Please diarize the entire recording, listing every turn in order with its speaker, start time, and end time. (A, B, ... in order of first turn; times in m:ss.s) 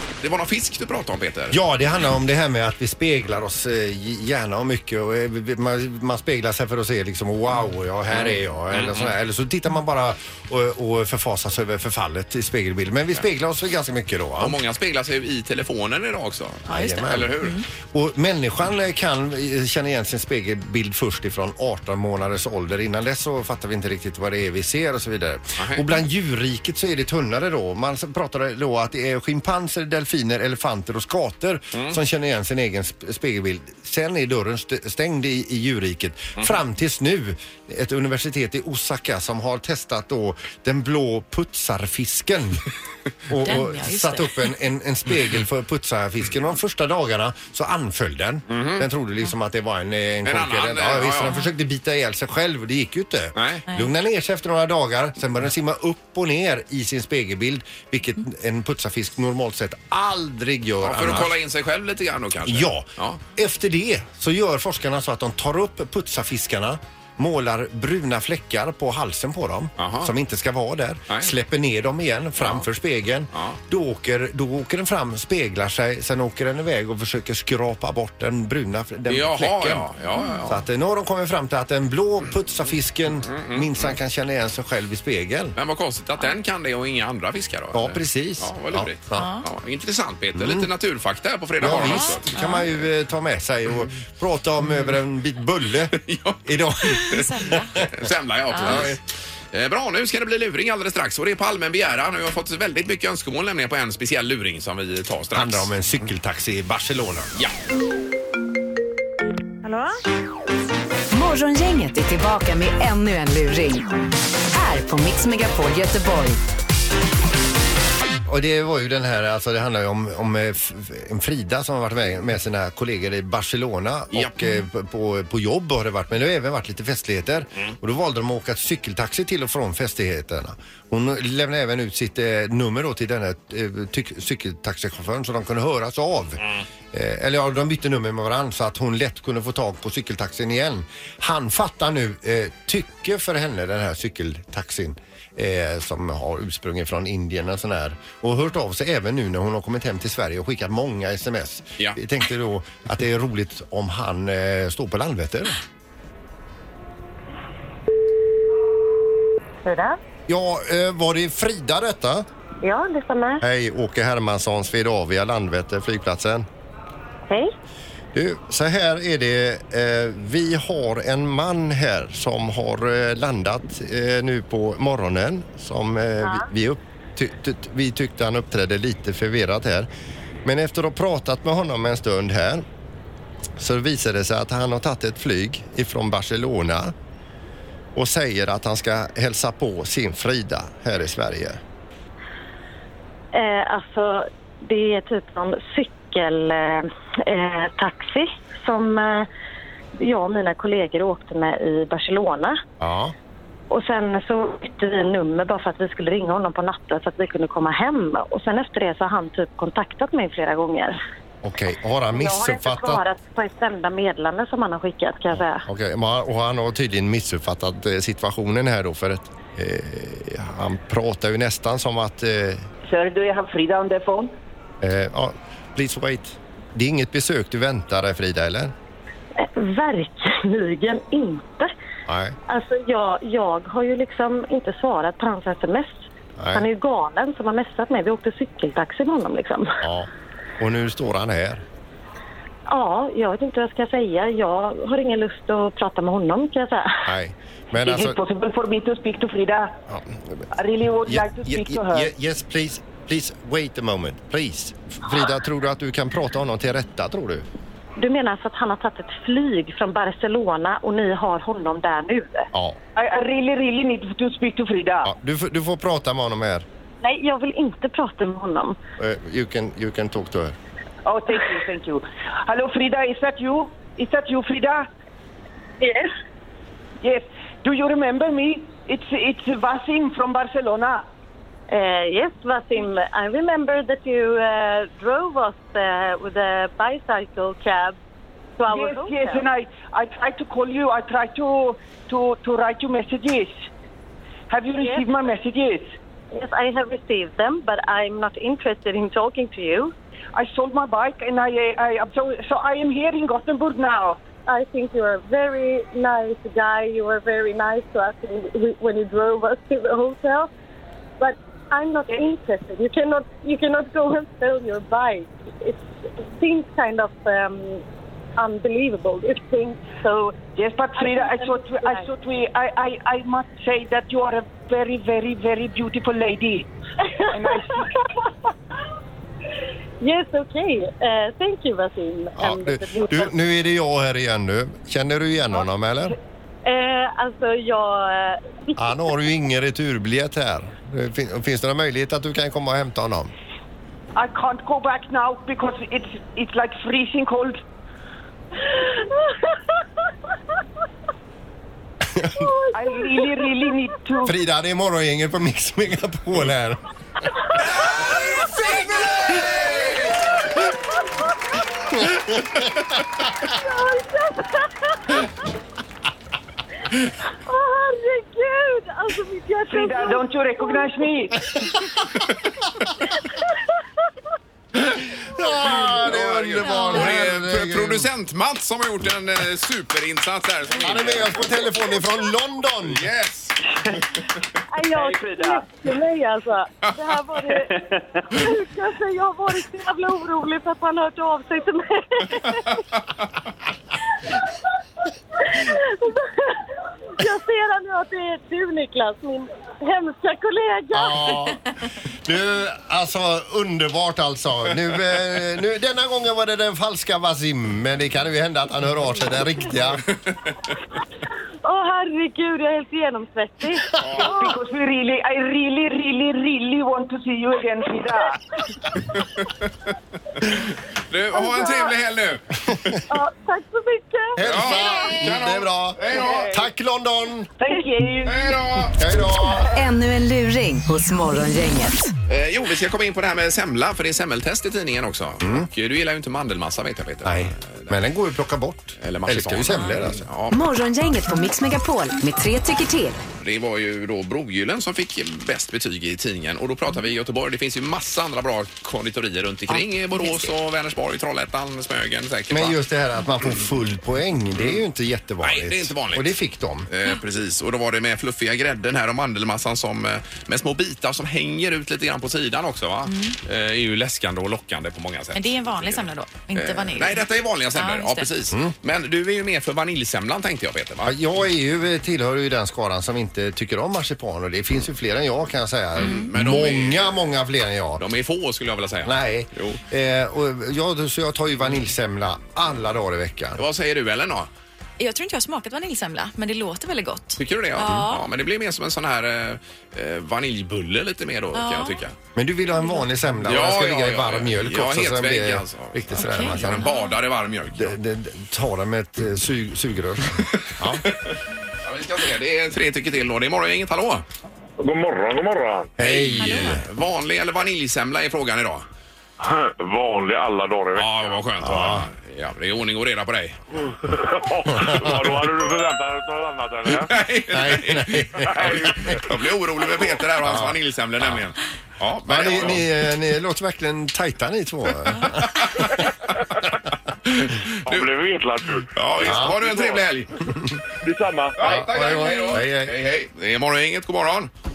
0:00.2-0:01.6 A
0:01.5-0:14.6 B
0:08.1-0:09.1 A
0:14.4-0:17.6 A
0:16.7-0:42.6 B
0:16.7-0:17.6 C
0:25.6-0:25.9 A
0:43.3-1:01.3 B
0:43.4-0:44.5 C
0:48.5-0:48.9 A
0:50.2-0:51.4 A
0:53.4-0:53.6 A
1:00.8-1:03.2 A
1:02.4-1:19.9 B
1:09.8-1:10.1 A
1:12.4-1:12.6 A
1:19.1-1:20.6 A
1:20.5-1:25.6 B
1:23.3-1:23.9 A
1:25.6-1:32.5 A
1:27.7-1:29.2 B
1:29.1-1:29.5 C
1:30.4-1:30.7 B
1:31.6-1:37.2 B
1:31.7-1:32.7 C
1:36.0-1:39.0 A
1:37.1-1:37.8 C
1:38.5-1:38.8 C
1:38.6-1:39.0 B
1:39.5-1:45.7 A
1:45.3-1:47.3 B
1:51.1-1:53.9 D
1:54.5-1:56.4 D
1:58.3-2:35.6 B
2:39.6-2:40.0 E
2:40.3-2:42.3 B
2:42.6-2:43.4 E
2:43.4-2:46.5 B
2:48.1-2:59.9 B
3:00.4-3:02.6 B
3:03.6-3:06.9 B
3:08.0-3:11.6 B
3:13.3-3:19.3 E
3:20.0-3:22.6 E
3:22.8-3:23.2 B
3:23.7-3:31.0 E
3:31.4-3:33.0 B
3:32.1-3:35.6 E
3:35.3-3:42.7 B
3:42.9-3:44.3 F
3:44.8-3:48.7 B
3:49.4-3:51.7 E
3:52.1-3:52.4 B
3:52.5-3:59.8 E
3:56.4-3:56.7 B
3:59.8-4:01.6 B
4:02.7-4:07.1 E
4:07.0-4:08.2 B
4:07.8-4:09.8 F
4:09.9-4:10.4 B
4:10.5-4:12.1 F
4:11.0-4:17.4 B
4:18.0-4:22.5 E
4:22.5-4:22.8 B
4:23.0-4:25.1 F
4:25.0-4:26.7 B
4:27.0-4:28.8 E
4:29.0-4:30.6 B
4:31.0-4:34.9 F
4:35.8-4:36.1 E
4:37.0-4:41.0 F
4:41.7-4:48.0 E
4:48.6-4:49.5 E
4:48.7-4:53.7 F
4:54.5-4:56.0 F
4:54.8-4:55.1 E
4:56.3-4:59.9 E
5:00.4-5:04.2 F
5:04.5-5:10.5 E
5:11.2-5:17.8 E
5:18.4-5:20.4 E
5:20.6-5:26.7 F
5:21.0-5:22.1 E
5:27.3-5:27.9 F
5:30.0-5:33.3 E
5:32.4-5:36.2 B
5:36.6-5:38.8 E
5:38.8-5:43.3 B
5:44.2-5:47.6 F
5:52.2-5:52.5 B
5:52.4-5:53.5 E
5:52.7-5:54.3 F
5:54.2-5:56.8 B
6:02.1-6:02.8 B
6:03.4-6:05.3 E
6:07.5-6:10.9 E
6:09.7-6:11.4 F
6:15.2-6:18.1 B
6:15.9-6:21.6 A
6:20.8-6:23.1 B
6:22.8-6:23.6 A
6:24.7-6:27.8 E
6:25.0-6:25.7 F
6:27.5-6:28.1 F
6:28.3-6:32.8 E
6:35.4-6:41.4 E
6:40.9-6:41.6 B
6:42.2-6:50.0 B
6:51.6-6:54.4 E
6:54.0-6:54.3 A
6:54.1-6:58.4 F
7:00.4-7:02.9 A
7:01.4-7:01.9 E
7:03.1-7:04.4 E
7:04.4-7:07.5 B
7:04.5-7:06.5 A
7:06.1-7:06.6 F
7:07.6-7:08.6 F
7:08.2-7:09.0 A
7:09.0-7:09.7 B
7:09.7-7:12.1 D
7:12.3-7:18.0 A
7:15.4-7:15.7 B
7:17.2-7:20.3 B
7:19.0-7:20.6 A
7:19.7-7:20.0 C
7:20.5-7:23.2 D
7:23.4-7:32.8 A
7:32.5-7:36.9 B
7:35.4-7:36.4 A
7:36.9-7:51.2 A
7:43.0-7:43.4 C
7:45.3-7:48.3 C
7:51.0-7:58.0 B
7:56.0-7:57.1 A
7:56.0-7:56.3 C
7:58.0-7:59.8 A
7:59.0-8:03.6 B
8:03.6-8:04.5 A
8:05.0-8:08.3 C
8:07.4-8:12.2 A
8:11.5-8:12.0 C
8:12.4-8:16.9 B
8:12.8-8:13.1 C
8:13.4-8:18.0 A
8:16.2-8:17.2 C
8:17.8-8:21.0 B
8:21.8-8:24.2 A
8:24.8-8:25.9 G
8:26.0-8:26.8 B
8:26.0-8:28.9 A
8:26.4-8:26.8 C
8:29.4-8:31.4 G
8:31.0-8:33.6 A
8:31.6-8:32.1 B
8:34.0-8:37.1 G
8:34.7-8:35.3 B
8:37.1-8:42.9 A
8:37.5-8:39.2 B
8:38.5-8:39.0 G
8:40.4-8:40.8 B
8:42.3-8:45.7 B
8:45.6-8:45.9 A
8:47.3-8:48.1 A
8:47.9-8:50.0 G
8:48.9-8:50.5 A
8:49.2-8:49.6 B
8:51.0-8:51.6 G
8:51.6-8:54.5 A
8:51.6-8:53.0 B